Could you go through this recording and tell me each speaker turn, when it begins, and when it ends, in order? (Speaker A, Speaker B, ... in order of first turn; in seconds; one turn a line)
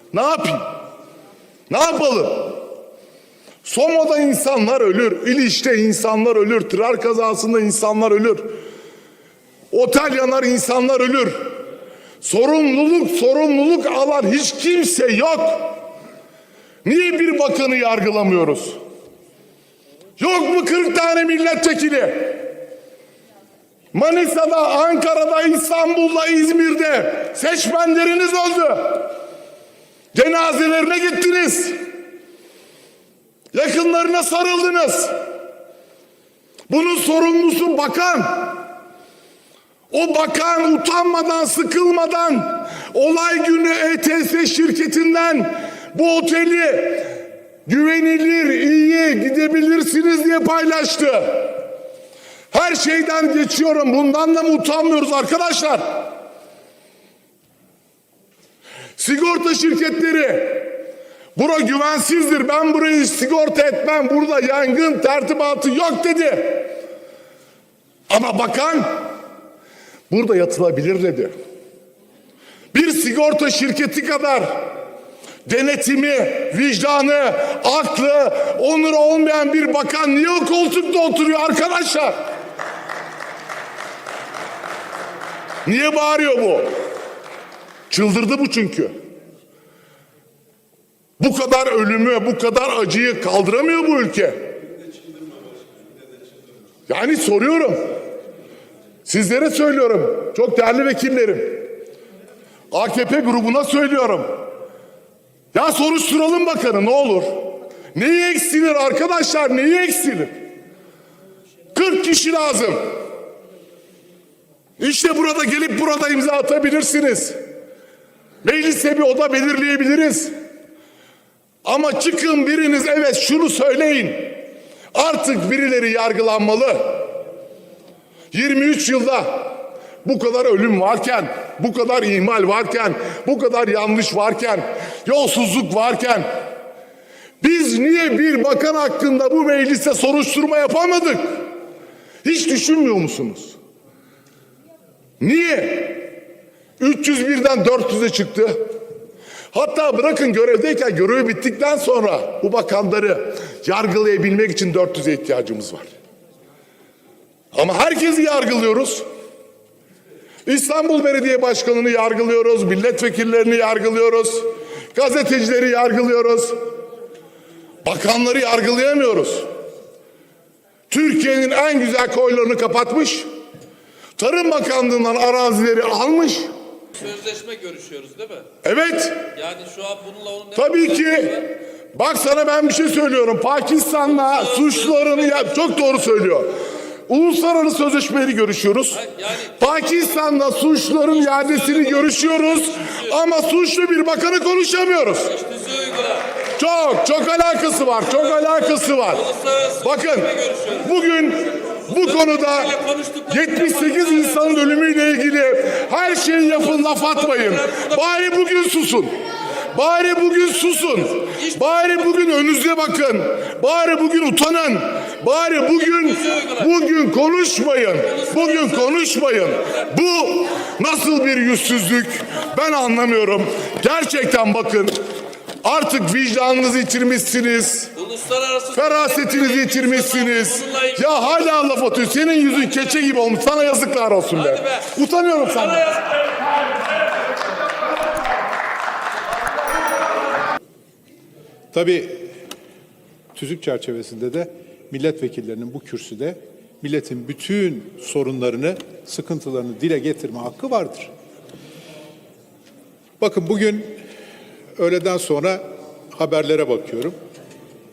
Speaker A: 0.1-0.8
Speaker A: 1.7-2.6
Speaker A: 3.6-8.6
Speaker A: 9.7-11.5
Speaker A: 12.2-15.8
Speaker A: 16.8-18.8
Speaker A: 20.2-22.5
Speaker A: 23.9-29.1
Speaker A: 30.1-31.8
Speaker A: 33.5-35.1
Speaker A: 36.7-38.6
Speaker A: 39.9-47.1
Speaker A: 47.6-51.6
Speaker A: 52.5-56.1
Speaker A: 59.0-60.8
Speaker A: 61.4-66.7
Speaker A: 68.1-69.0
Speaker A: 70.1-71.3
Speaker A: 72.7-74.7
Speaker A: 75.5-82.2
Speaker A: 85.6-86.7
Speaker A: 87.9-88.9
Speaker A: 91.2-94.5
Speaker A: 96.9-97.9
Speaker A: 99.0-101.7
Speaker A: 102.7-104.4
Speaker A: 105.5-110.3
Speaker A: 111.7-112.9
Speaker A: 114.8-117.4
Speaker A: 118.4-120.3
Speaker A: 121.6-124.4
Speaker A: 124.9-127.1
Speaker A: 128.3-136.3
Speaker A: 137.4-141.4
Speaker A: 142.2-143.6
Speaker A: 145.2-146.1
Speaker A: 146.8-148.7
Speaker A: 149.5-155.9
Speaker A: 157.5-159.0
Speaker A: 160.4-166.6
Speaker A: 167.8-169.5
Speaker A: 170.9-173.2
Speaker A: 174.2-176.5
Speaker B: 177.0-178.5
Speaker A: 178.6-179.3
Speaker B: 179.4-180.6
Speaker A: 180.5-186.5
Speaker A: 187.1-195.4
Speaker B: 195.5-196.2
Speaker A: 196.4-209.1
Speaker B: 202.8-203.4
Speaker A: 209.7-225.0
Speaker A: 225.6-228.0
Speaker B: 228.0-228.7
Speaker A: 228.7-236.1
Speaker B: 229.3-229.6
Speaker C: 241.7-242.3
Speaker C: 243.3-251.1
Speaker C: 253.2-253.9
Speaker C: 254.8-255.6
Speaker C: 256.1-257.1